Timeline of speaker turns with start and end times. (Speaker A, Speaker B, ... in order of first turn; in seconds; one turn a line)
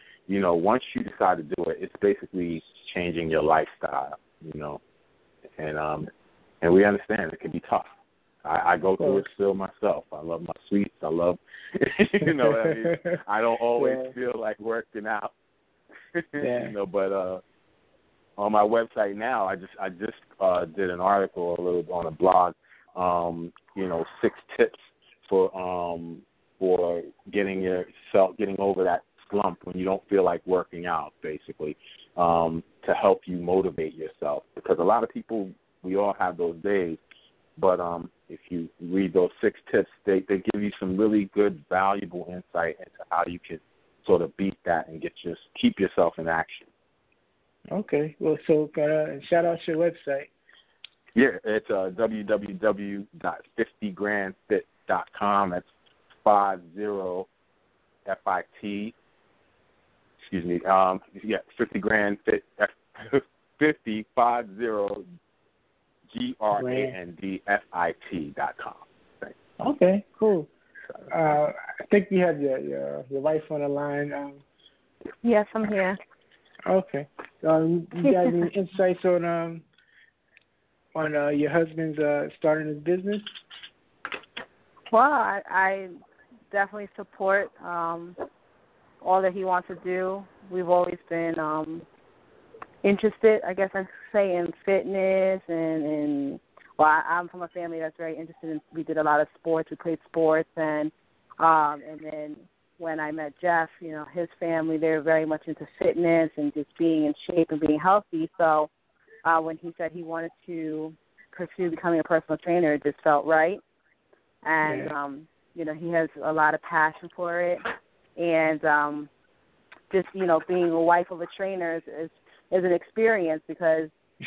Speaker A: 0.3-4.8
Speaker A: 5.6-6.1
Speaker A: 6.6-7.9
Speaker A: 8.4-15.3
Speaker B: 9.0-9.3
Speaker B: 12.2-13.2
Speaker B: 13.8-14.1
Speaker A: 16.1-17.4
Speaker B: 16.4-16.7
Speaker A: 18.4-37.0
Speaker A: 37.6-46.7
Speaker B: 47.7-50.3
Speaker A: 51.2-55.7
Speaker A: 56.2-57.3
Speaker A: 58.1-58.9
Speaker A: 60.3-65.1
Speaker A: 66.1-69.3
Speaker B: 66.6-66.9
Speaker B: 69.6-70.5
Speaker B: 71.1-74.4
Speaker C: 75.2-76.0
Speaker B: 76.7-79.7
Speaker B: 81.0-83.2
Speaker C: 84.9-86.0
Speaker C: 86.5-88.2
Speaker C: 89.0-91.8
Speaker C: 92.8-108.7
Speaker C: 109.2-113.6
Speaker C: 114.4-117.7
Speaker B: 114.6-114.9
Speaker C: 118.2-119.1
Speaker C: 119.9-123.9